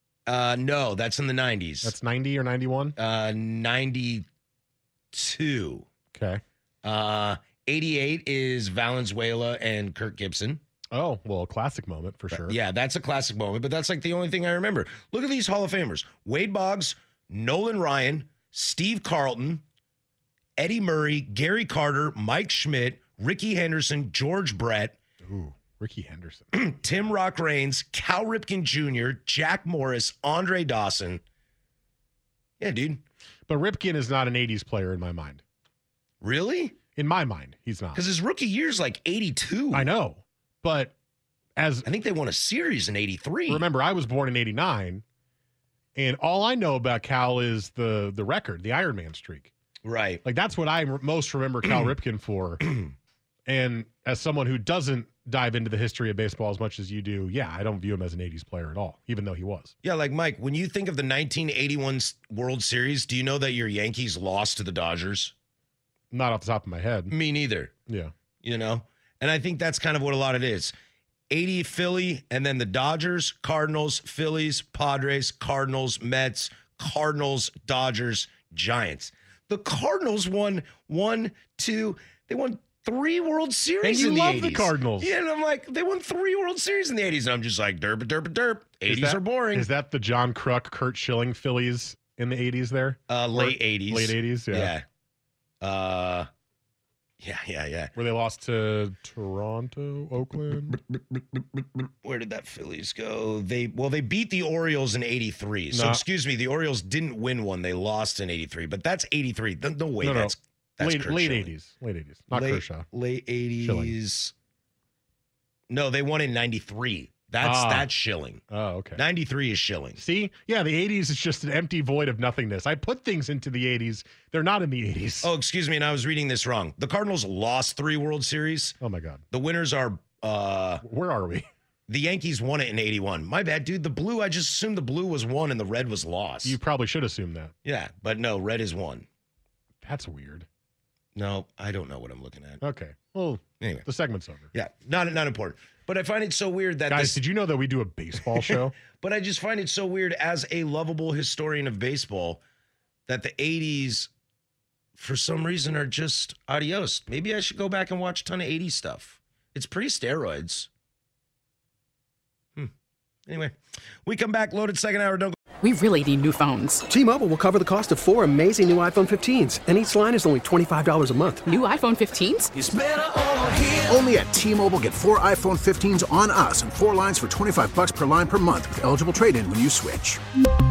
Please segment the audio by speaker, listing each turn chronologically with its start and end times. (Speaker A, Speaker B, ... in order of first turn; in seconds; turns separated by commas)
Speaker A: 0.3-1.9, Speaker B: 1.8-3.0, Speaker A: 3.0-4.2, Speaker A: 5.1-5.9, Speaker B: 6.1-6.4, Speaker A: 6.8-10.6, Speaker B: 10.9-12.6, Speaker A: 12.3-19.6, Speaker A: 20.6-24.9, Speaker B: 25.2-26.5, Speaker A: 26.5-31.2, Speaker A: 32.6-33.0, Speaker B: 33.5-35.4, Speaker A: 36.2-36.8, Speaker B: 37.0-38.0, Speaker A: 37.9-39.9, Speaker B: 39.7-40.9, Speaker B: 41.6-41.9, Speaker A: 41.8-43.6, Speaker B: 43.5-45.0, Speaker B: 46.0-49.5, Speaker A: 49.8-50.2, Speaker B: 50.2-52.7, Speaker B: 53.5-59.7, Speaker A: 59.8-65.3, Speaker B: 66.1-67.1, Speaker A: 67.1-67.7, Speaker B: 67.9-68.1, Speaker A: 68.4-70.7, Speaker A: 71.3-89.7, Speaker B: 83.8-85.1, Speaker B: 88.8-94.7, Speaker A: 93.1-94.8, Speaker A: 95.6-96.3, Speaker A: 97.2-97.9, Speaker B: 98.0-100.8, Speaker A: 100.7-111.5, Speaker B: 105.7-106.0, Speaker B: 110.0-112.9, Speaker A: 112.3-114.3, Speaker B: 113.6-113.9, Speaker A: 115.7-118.4, Speaker B: 117.4-117.9, Speaker B: 118.5-119.0, Speaker A: 119.0-120.0, Speaker B: 120.0-125.3, Speaker A: 125.2-128.8, Speaker B: 128.8-129.2, Speaker A: 129.3-130.8, Speaker B: 130.8-131.5, Speaker A: 131.9-136.6, Speaker B: 136.4-137.5, Speaker A: 137.6-139.1, Speaker B: 139.8-140.4, Speaker A: 141.2-142.6, Speaker B: 142.6-144.5, Speaker A: 144.5-147.2, Speaker B: 146.9-148.7, Speaker A: 148.3-152.4, Speaker A: 153.1-154.1, Speaker A: 155.0-160.7, Speaker A: 163.3-165.4, Speaker C: 165.6-166.8, Speaker D: 166.9-171.4, Speaker C: 171.4-172.5, Speaker E: 172.6-180.2